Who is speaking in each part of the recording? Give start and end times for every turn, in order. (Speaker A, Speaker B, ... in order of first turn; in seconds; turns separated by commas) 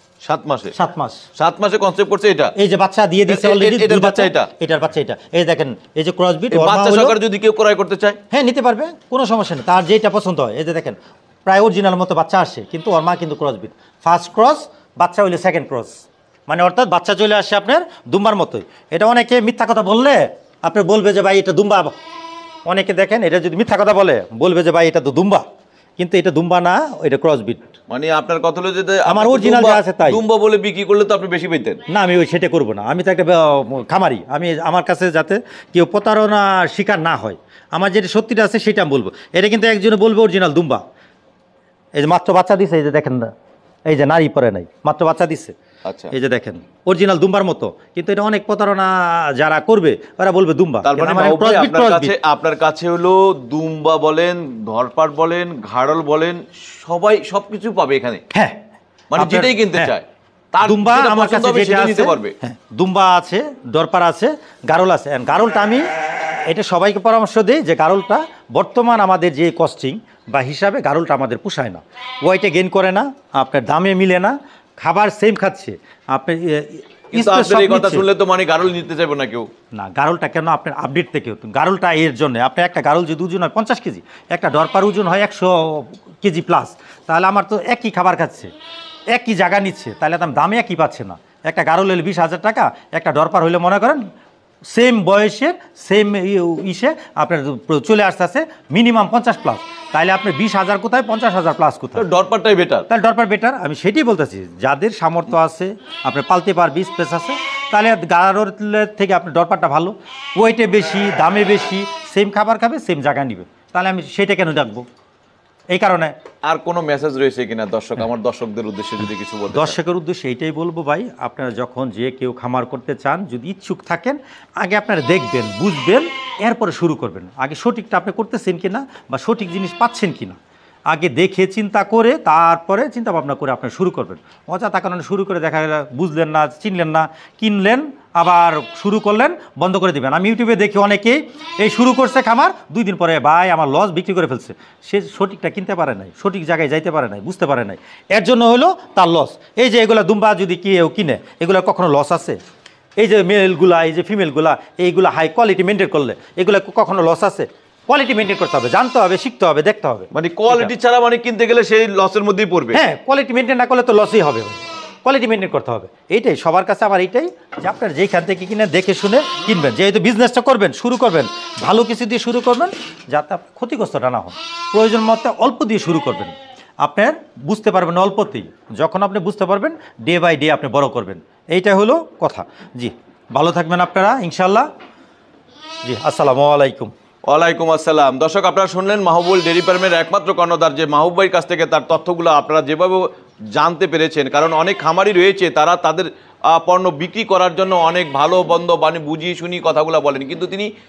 Speaker A: 0.2-0.7, Speaker B: 0.7-1.2, Speaker A: 1.4-2.5, Speaker B: 2.5-7.2, Speaker A: 3.3-4.5, Speaker A: 6.5-8.2, Speaker B: 8.3-21.9, Speaker B: 22.6-25.4, Speaker B: 26.0-27.6, Speaker A: 27.9-31.8, Speaker B: 29.1-30.2, Speaker B: 31.9-40.8, Speaker B: 41.9-43.3, Speaker B: 43.9-45.5, Speaker A: 45.8-46.1, Speaker B: 46.1-52.1, Speaker A: 50.8-58.2, Speaker B: 58.3-58.6, Speaker A: 59.1-62.3, Speaker B: 59.2-59.9, Speaker B: 60.6-65.8, Speaker B: 66.5-78.0, Speaker A: 77.1-79.5, Speaker B: 79.7-88.5, Speaker B: 89.1-94.0, Speaker B: 94.7-102.0, Speaker A: 102.0-102.8, Speaker B: 102.9-114.9, Speaker B: 115.7-116.1, Speaker A: 116.5-119.8, Speaker B: 119.5-130.4, Speaker B: 130.9-152.4, Speaker B: 153.0-160.7, Speaker A: 160.1-162.8, Speaker B: 162.7-184.7, Speaker B: 185.8-186.9, Speaker A: 187.3-200.7